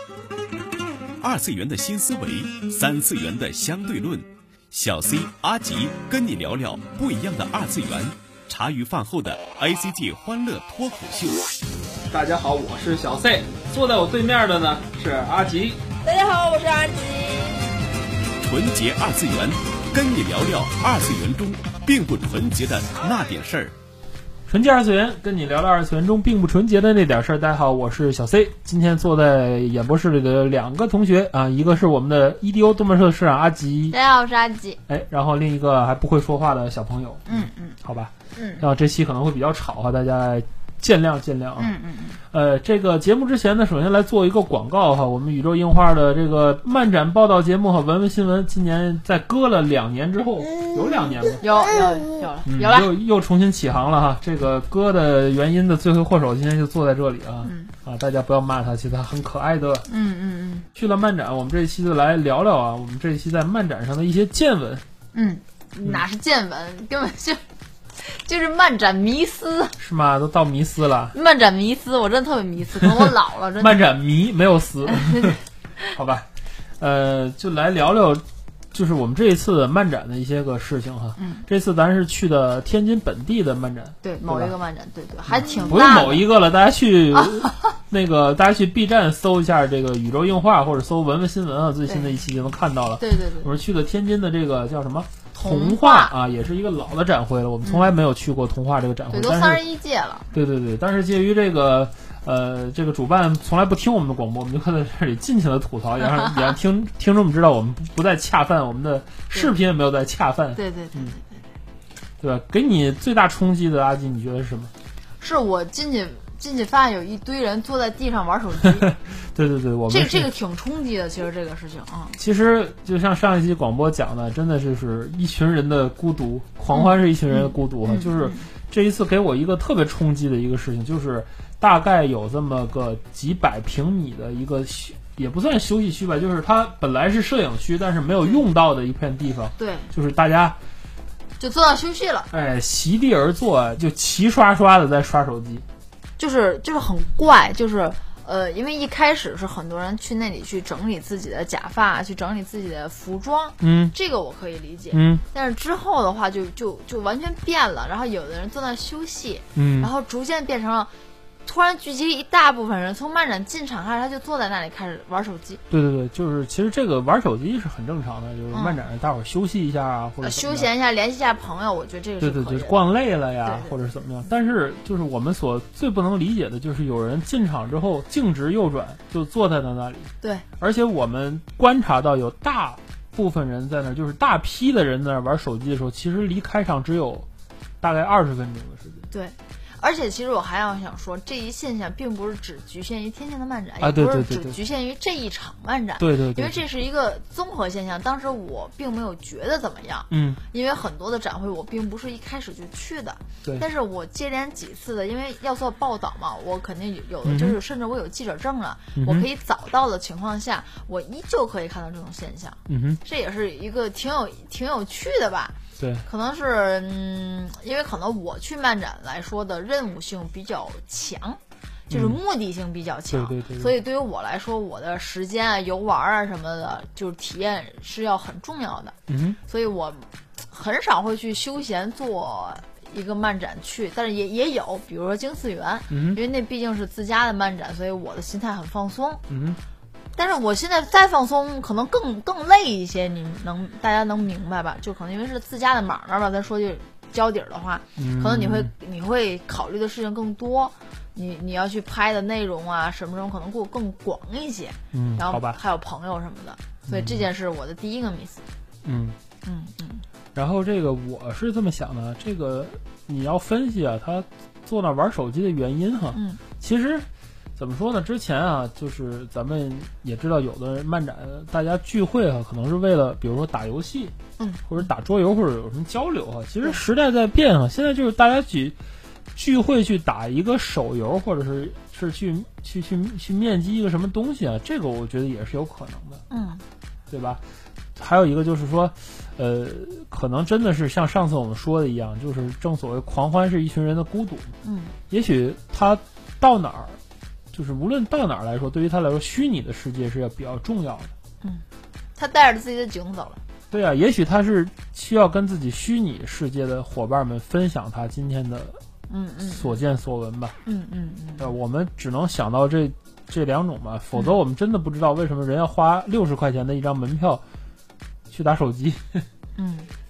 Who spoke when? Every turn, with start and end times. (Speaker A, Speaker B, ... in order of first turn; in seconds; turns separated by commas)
Speaker A: 1.2-11.6, Speaker B: 12.1-15.8, Speaker C: 16.0-17.6, Speaker A: 18.4-23.7, Speaker B: 24.5-34.0, Speaker C: 33.9-34.8, Speaker B: 34.9-41.7, Speaker C: 37.2-37.8, Speaker C: 38.3-38.6, Speaker C: 41.5-42.2, Speaker B: 42.3-51.4, Speaker C: 51.4-52.9, Speaker B: 52.5-59.9, Speaker C: 57.4-57.7, Speaker C: 59.9-60.7, Speaker B: 60.7-64.8, Speaker C: 65.1-67.4, Speaker C: 67.9-69.8, Speaker B: 69.8-71.1, Speaker C: 71.1-73.8, Speaker B: 72.8-75.4, Speaker C: 74.9-75.8, Speaker B: 75.9-76.3, Speaker B: 76.8-84.5, Speaker C: 81.2-81.5, Speaker C: 84.0-86.3, Speaker B: 85.3-99.6, Speaker C: 87.1-87.6, Speaker C: 91.9-92.2, Speaker C: 93.0-93.5, Speaker C: 95.3-96.1, Speaker C: 97.6-98.0, Speaker C: 99.1-100.3, Speaker B: 100.3-111.2, Speaker C: 106.0-106.4, Speaker C: 110.5-111.3, Speaker B: 112.2-114.7, Speaker C: 115.2-119.0, Speaker B: 119.3-120.3, Speaker C: 119.9-122.2, Speaker B: 122.2-140.6, Speaker C: 126.7-128.5, Speaker C: 139.6-139.9, Speaker C: 141.4-142.3, Speaker B: 142.3-145.6, Speaker C: 146.2-160.9, Speaker B: 153.6-153.9, Speaker B: 154.9-155.2, Speaker B: 159.5-159.9, Speaker C: 161.4-165.6, Speaker B: 165.7-170.7, Speaker C: 168.5-168.8, Speaker C: 170.2-172.8, Speaker B: 172.2-187.2, Speaker C: 173.4-173.7, Speaker C: 180.2-180.4, Speaker B: 187.8-189.1, Speaker C: 189.1-239.2, Speaker B: 193.8-194.6, Speaker B: 196.0-196.6, Speaker B: 200.1-200.4, Speaker B: 207.2-207.6, Speaker B: 208.9-209.3, Speaker B: 212.7-213.0, Speaker B: 215.8-216.1, Speaker B: 221.9-222.2, Speaker B: 223.1-223.8, Speaker B: 229.1-229.4, Speaker B: 235.9-236.2, Speaker B: 239.3-239.6, Speaker C: 240.1-258.4, Speaker B: 247.9-248.7, Speaker B: 254.9-255.6, Speaker B: 256.9-257.3, Speaker B: 258.8-259.2, Speaker C: 259.4-260.0, Speaker B: 260.3-274.1, Speaker C: 266.1-266.4, Speaker C: 274.4-274.8, Speaker B: 274.7-278.8, Speaker B: 279.3-286.2, Speaker C: 286.3-286.6, Speaker B: 287.1-287.4, Speaker B: 287.9-294.5, Speaker C: 294.6-294.9, Speaker B: 295.1-297.0, Speaker B: 297.5-301.1, Speaker C: 302.1-303.4, Speaker B: 303.7-308.8, Speaker C: 309.1-309.8, Speaker B: 309.4-310.6, Speaker C: 310.6-311.5, Speaker B: 311.4-317.4, Speaker B: 318.3-319.2, Speaker C: 319.6-319.9